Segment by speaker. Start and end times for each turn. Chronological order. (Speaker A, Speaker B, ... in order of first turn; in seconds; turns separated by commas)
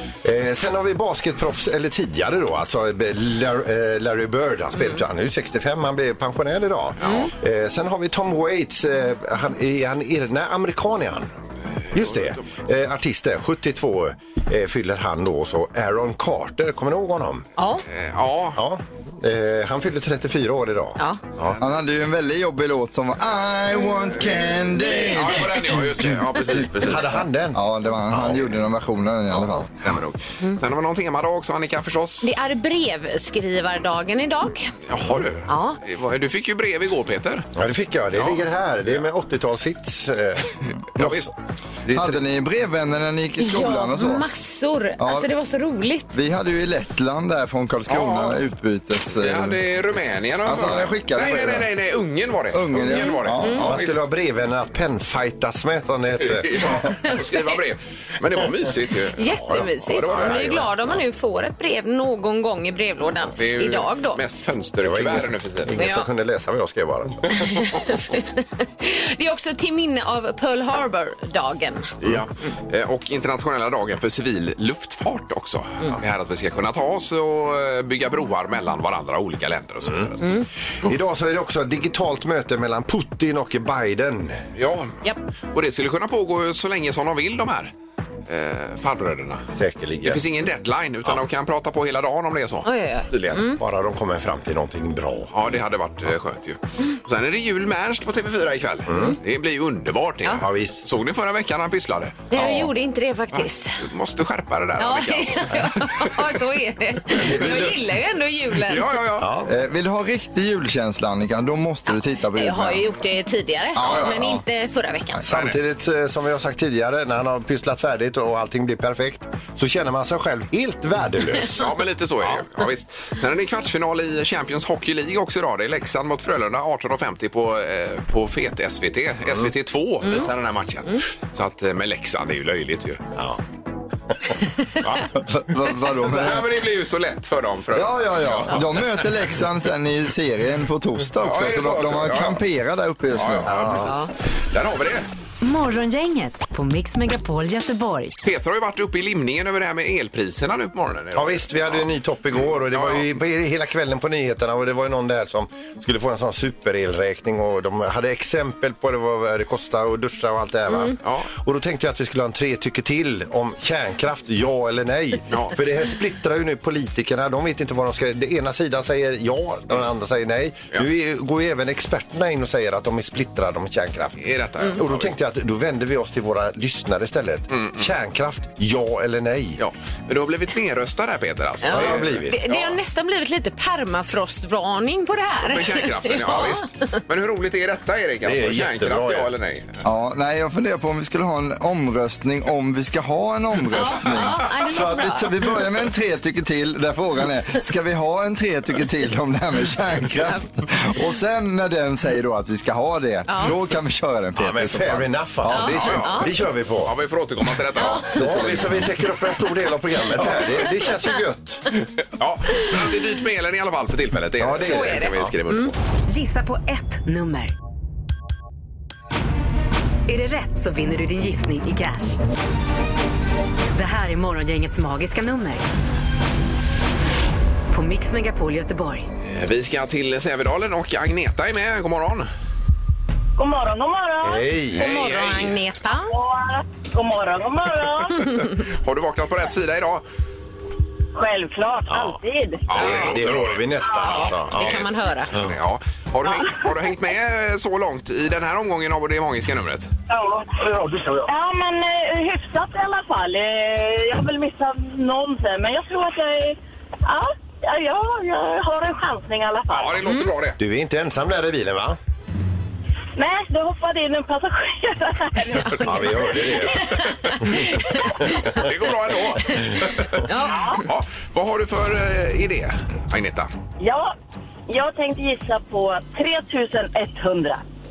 Speaker A: 0.2-11.3, Speaker B: 7.0-7.3, Speaker C: 7.0-7.3, Speaker A: 11.9-17.4, Speaker B: 12.0-12.4, Speaker C: 17.6-17.8, Speaker B: 17.9-18.6, Speaker A: 18.5-21.6, Speaker D: 21.6-25.7, Speaker B: 25.0-27.2, Speaker A: 26.5-28.5, Speaker D: 27.5-29.7, Speaker B: 29.6-32.3, Speaker C: 32.2-34.7, Speaker B: 34.9-37.5, Speaker C: 35.5-35.8, Speaker A: 37.5-41.3, Speaker B: 38.1-39.0, Speaker B: 41.0-41.3, Speaker A: 41.8-42.2, Speaker D: 41.9-44.2, Speaker C: 43.4-46.1, Speaker D: 45.0-45.3, Speaker D: 46.1-49.6, Speaker B: 47.9-48.4, Speaker B: 49.1-54.0, Speaker D: 50.4-51.7, Speaker D: 52.5-53.7, Speaker C: 53.4-53.7, Speaker A: 53.6-56.8, Speaker B: 56.3-60.7, Speaker C: 56.9-57.5, Speaker C: 59.1-64.2, Speaker A: 60.0-60.7, Speaker B: 63.4-65.8, Speaker A: 64.8-67.7, Speaker C: 65.8-66.0, Speaker C: 67.4-71.9, Speaker B: 72.0-80.4, Speaker A: 80.8-84.4, Speaker B: 84.5-85.0, Speaker B: 85.5-87.7, Speaker B: 88.3-89.4, Speaker A: 89.5-90.2, Speaker B: 90.0-93.4, Speaker C: 92.6-93.6, Speaker A: 93.6-95.3, Speaker B: 95.3-102.2, Speaker A: 98.9-99.2, Speaker A: 100.3-100.8, Speaker C: 102.3-103.8, Speaker A: 102.4-102.6, Speaker B: 103.3-106.1, Speaker C: 104.8-108.9, Speaker A: 107.1-107.8, Speaker B: 108.7-109.3, Speaker A: 109.2-109.5, Speaker D: 109.5-112.8, Speaker C: 112.3-115.2, Speaker D: 113.8-114.4, Speaker B: 113.8-114.1, Speaker A: 115.2-122.4, Speaker B: 115.3-115.6, Speaker B: 121.5-133.0, Speaker D: 135.1-136.5, Speaker B: 136.0-138.8, Speaker D: 137.7-143.6, Speaker B: 141.2-142.4, Speaker B: 143.1-145.1, Speaker A: 143.4-143.9, Speaker C: 143.8-144.1, Speaker E: 145.4-148.2, Speaker B: 148.2-151.9, Speaker A: 151.1-179.6, Speaker B: 152.7-153.1, Speaker B: 161.0-161.3, Speaker B: 165.3-165.5, Speaker B: 174.2-175.2, Speaker B: 177.5-177.9, Speaker B: 179.6-182.8, Speaker C: 181.6-186.6, Speaker A: 181.7-182.4, Speaker B: 185.4-189.8, Speaker A: 188.2-189.3, Speaker D: 189.8-205.7, Speaker C: 193.7-195.5, Speaker C: 203.3-203.5, Speaker A: 204.4-206.9, Speaker C: 205.5-206.3, Speaker B: 205.6-208.8, Speaker C: 207.8-208.2, Speaker A: 207.8-211.6, Speaker B: 212.2-215.7, Speaker A: 214.4-215.3, Speaker C: 214.6-215.7, Speaker E: 216.1-217.5, Speaker E: 220.1-222.2, Speaker E: 223.7-225.7, Speaker E: 227.7-229.1, Speaker B: 229.2-232.3, Speaker F: 233.4-234.4, Speaker A: 234.2-234.8, Speaker B: 234.8-235.6, Speaker C: 234.8-236.1, Speaker F: 236.1-238.2, Speaker B: 238.2-240.0, Speaker F: 241.1-242.7, Speaker A: 241.9-242.2, Speaker B: 242.7-243.6, Speaker A: 242.7-244.8, Speaker C: 242.8-243.1, Speaker F: 243.9-244.2, Speaker C: 244.1-245.3, Speaker B: 244.5-249.9, Speaker F: 250.1-260.0, Speaker B: 259.7-260.6, Speaker C: 260.0-260.3, Speaker A: 260.6-262.0, Speaker F: 263.1-266.7, Speaker A: 265.8-266.9, Speaker C: 266.7-268.6, Speaker B: 268.4-270.2, Speaker C: 270.2-270.8, Speaker F: 270.5-270.8, Speaker B: 270.8-273.5, Speaker F: 273.8-274.1, Speaker F: 274.7-277.6